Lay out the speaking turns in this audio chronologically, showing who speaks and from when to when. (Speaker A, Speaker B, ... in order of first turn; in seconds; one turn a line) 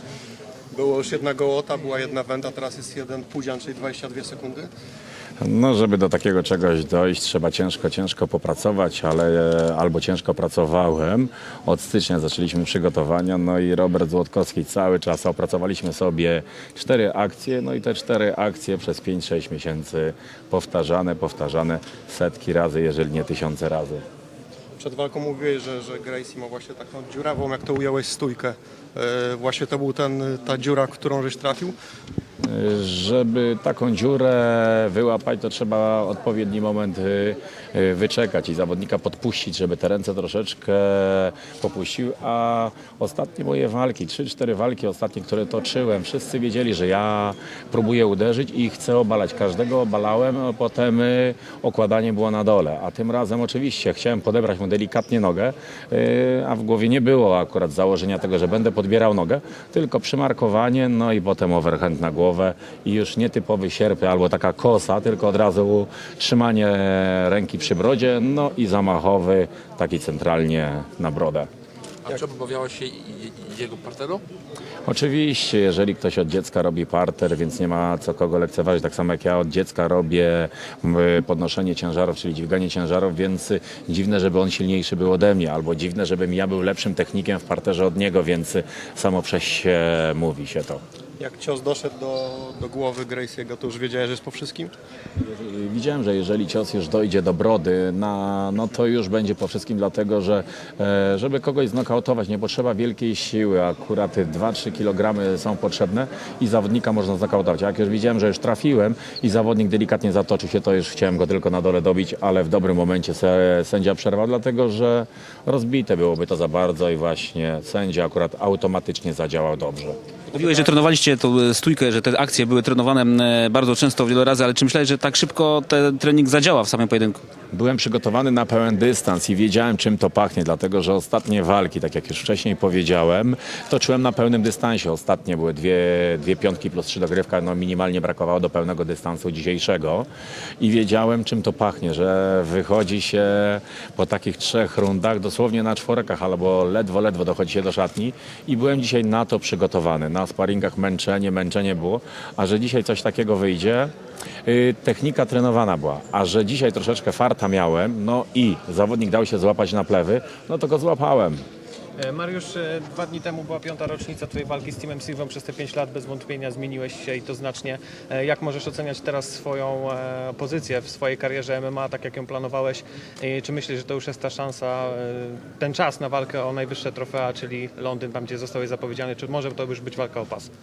Speaker A: 0.7-4.7
Speaker B: 5.4-24.0
Speaker A: 24.8-31.8
Speaker B: 32.4-71.5
Speaker C: 72.0-74.2
Speaker B: 74.9-90.8
Speaker A: 91.2-94.7
Speaker B: 95.2-120.0
Speaker D: 120.3-127.2
Speaker B: 127.5-140.1
Speaker B: 140.6-153.9
Speaker B: 154.4-161.4
Speaker E: 162.0-180.5